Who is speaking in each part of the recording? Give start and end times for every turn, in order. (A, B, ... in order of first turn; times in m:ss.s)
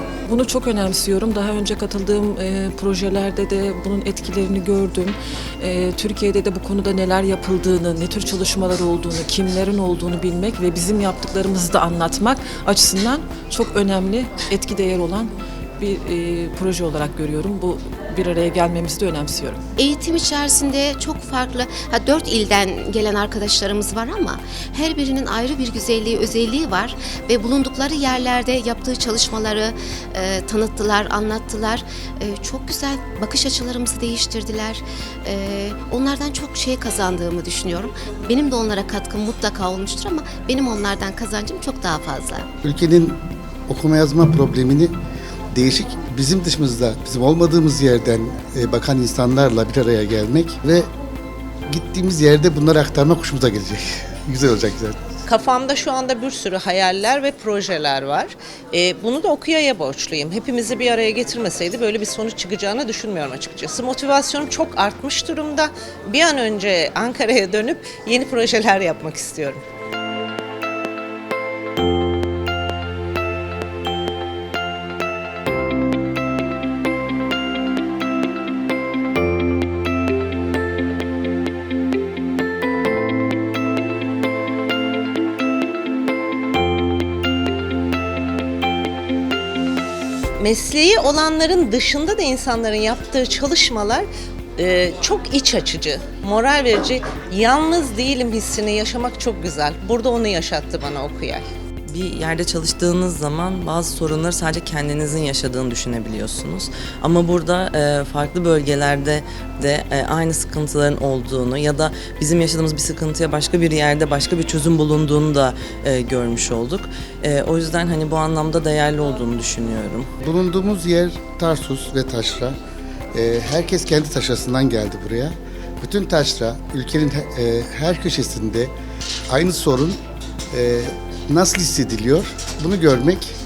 0:00.2-0:19.6 A
0:19.8-0:42.5 B
0:42.6-0:44.9 C
0:45.5-0:50.9 C
0:51.7-0:55.0 C
0:55.3-1:09.6 D
1:30.4-1:34.1 D
1:34.6-1:41.4 D
1:41.9-2:00.1 E
2:00.2-2:02.6 C
2:03.1-2:08.7 C
2:09.3-2:10.0 C
2:10.5-2:13.3 C